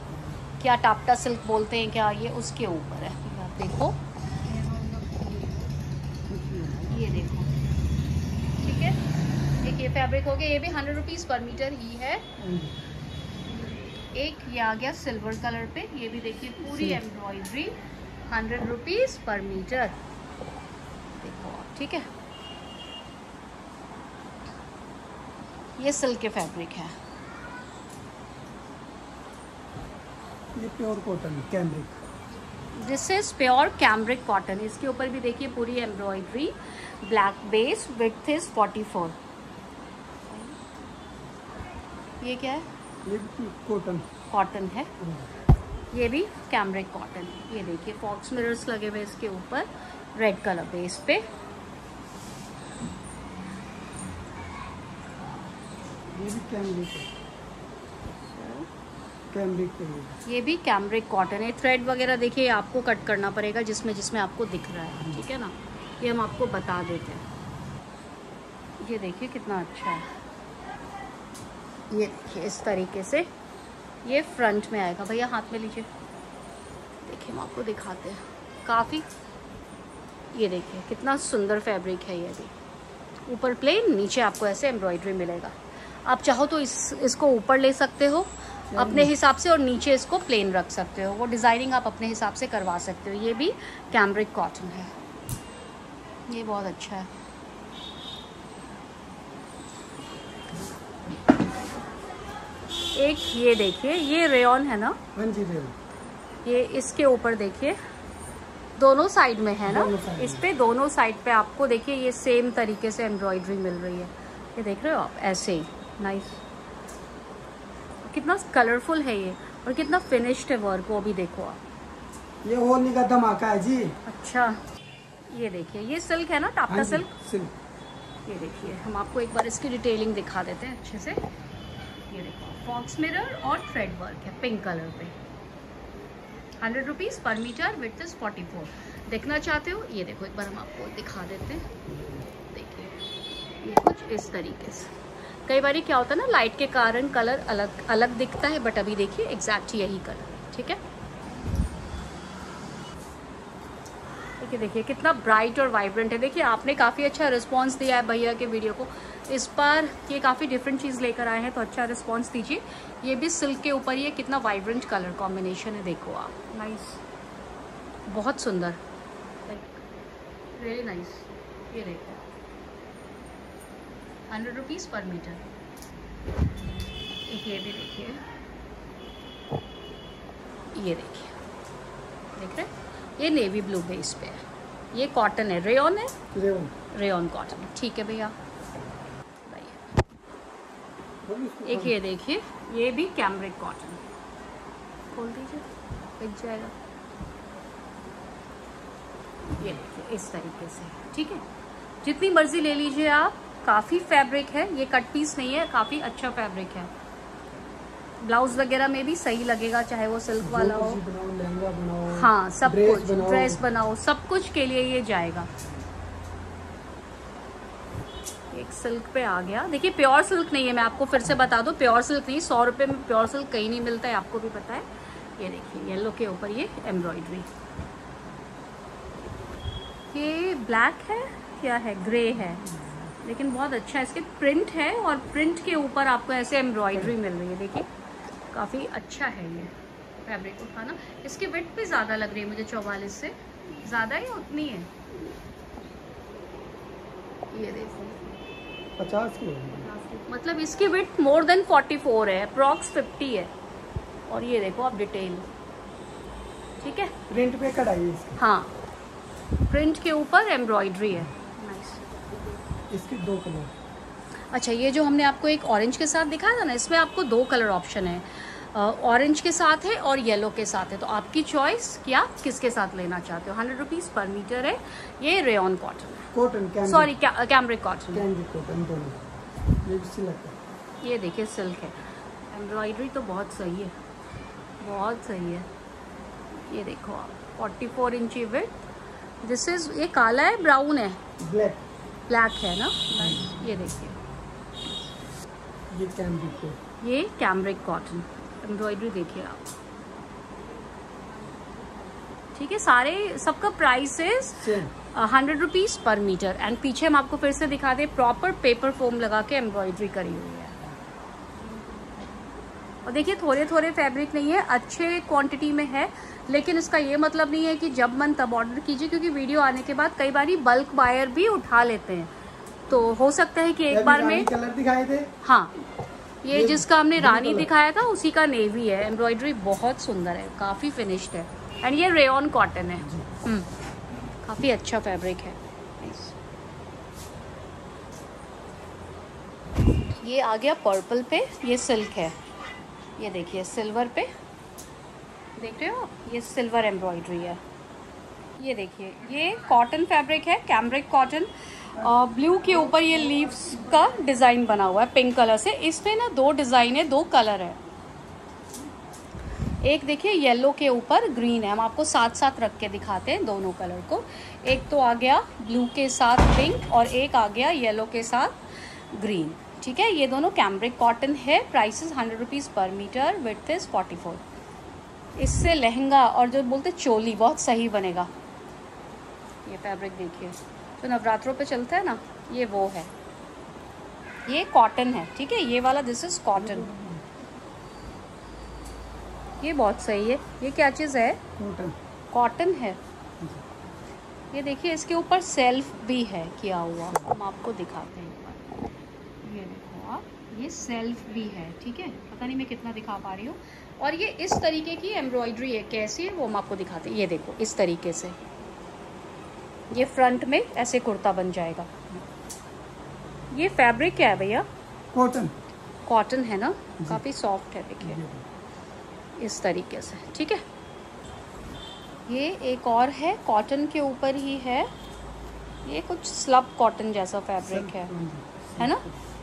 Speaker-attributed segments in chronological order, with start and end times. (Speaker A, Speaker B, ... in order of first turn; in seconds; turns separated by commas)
Speaker A: 0.1-0.3, Speaker B: 0.6-4.0, Speaker A: 6.3-7.1, Speaker B: 6.9-7.5, Speaker B: 8.6-9.0, Speaker B: 9.6-12.3, Speaker A: 12.4-12.8, Speaker B: 14.1-17.8, Speaker A: 16.7-17.0, Speaker B: 18.3-20.0, Speaker B: 21.2-22.1, Speaker B: 25.8-26.9, Speaker A: 30.6-32.0, Speaker B: 32.8-39.2, Speaker B: 40.3-40.6, Speaker B: 42.2-42.6, Speaker A: 43.0-44.1, Speaker B: 44.3-44.9, Speaker A: 45.0-45.3, Speaker B: 45.9-51.3, Speaker A: 56.1-57.1, Speaker B: 58.4-58.7, Speaker A: 59.3-60.2, Speaker B: 60.3-67.2, Speaker B: 68.8-70.1, Speaker B: 71.9-73.3, Speaker B: 74.0-75.9, Speaker B: 77.0-79.1, Speaker B: 80.3-82.5, Speaker B: 83.3-94.9, Speaker A: 88.7-89.1, Speaker B: 96.3-97.1, Speaker B: 102.9-105.0, Speaker A: 105.2-105.8, Speaker B: 106.5-107.8, Speaker B: 108.8-116.4, Speaker A: 109.7-110.5, Speaker B: 118.0-121.6, Speaker A: 122.4-124.0, Speaker B: 124.1-124.6, Speaker B: 125.3-127.1, Speaker A: 126.7-127.5, Speaker B: 128.3-131.2, Speaker B: 132.1-135.2, Speaker B: 136.6-141.7, Speaker A: 141.9-142.3, Speaker B: 142.5-142.9, Speaker B: 143.6-144.9, Speaker B: 145.5-150.8, Speaker B: 154.4-167.0, Speaker B: 168.1-168.8, Speaker B: 169.5-169.8, Speaker B: 170.5-172.2, Speaker B: 174.3-175.4, Speaker B: 176.6-178.2, Speaker B: 180.7-181.3, Speaker B: 182.3-186.2, Speaker A: 186.3-186.7, Speaker B: 186.9-188.3, Speaker B: 189.4-189.8, Speaker A: 191.3-192.0, Speaker B: 191.7-194.0, Speaker B: 195.1-196.7, Speaker B: 199.6-201.4, Speaker B: 202.0-206.9, Speaker B: 208.2-211.0, Speaker A: 210.4-213.7, Speaker B: 212.1-215.5, Speaker B: 218.5-224.9, Speaker B: 225.4-227.5, Speaker B: 230.1-237.9, Speaker A: 232.7-233.1, Speaker B: 238.5-239.7, Speaker B: 240.2-244.9, Speaker B: 247.5-248.2, Speaker A: 249.0-249.9, Speaker B: 250.1-253.5, Speaker B: 254.3-255.5, Speaker B: 256.8-257.1, Speaker A: 257.3-258.4, Speaker B: 258.4-258.7, Speaker B: 259.7-262.1, Speaker A: 262.9-263.7, Speaker B: 264.5-276.3, Speaker A: 276.3-277.1, Speaker B: 276.9-278.3, Speaker A: 278.1-279.2, Speaker A: 279.8-280.6, Speaker B: 281.0-282.0, Speaker B: 282.5-283.9, Speaker B: 284.8-285.7, Speaker B: 286.5-288.8, Speaker B: 289.4-291.2, Speaker A: 291.4-291.8, Speaker B: 292.3-294.2, Speaker A: 295.9-296.8, Speaker B: 297.0-299.7, Speaker B: 302.5-310.8, Speaker A: 304.6-304.9, Speaker B: 313.1-322.3, Speaker B: 322.9-324.5, Speaker A: 323.9-325.3, Speaker B: 325.4-325.8, Speaker B: 326.4-333.7, Speaker A: 326.5-327.7, Speaker B: 334.4-336.4, Speaker B: 340.1-342.4, Speaker B: 343.2-344.3, Speaker B: 345.6-347.6, Speaker B: 348.6-357.8, Speaker A: 352.0-353.9, Speaker B: 359.8-368.6, Speaker B: 369.1-374.4, Speaker B: 375.4-378.3, Speaker B: 379.6-383.1, Speaker B: 384.5-386.9, Speaker A: 386.6-387.3, Speaker B: 389.6-391.4, Speaker A: 391.6-392.0, Speaker B: 392.3-393.0, Speaker B: 394.5-398.8, Speaker B: 399.4-408.4, Speaker B: 409.9-411.9, Speaker B: 413.5-414.7, Speaker A: 415.1-415.5, Speaker B: 416.1-418.2, Speaker A: 418.0-418.4, Speaker B: 419.4-420.6, Speaker B: 422.3-424.9, Speaker B: 425.9-428.1, Speaker A: 427.6-429.2, Speaker B: 428.8-429.0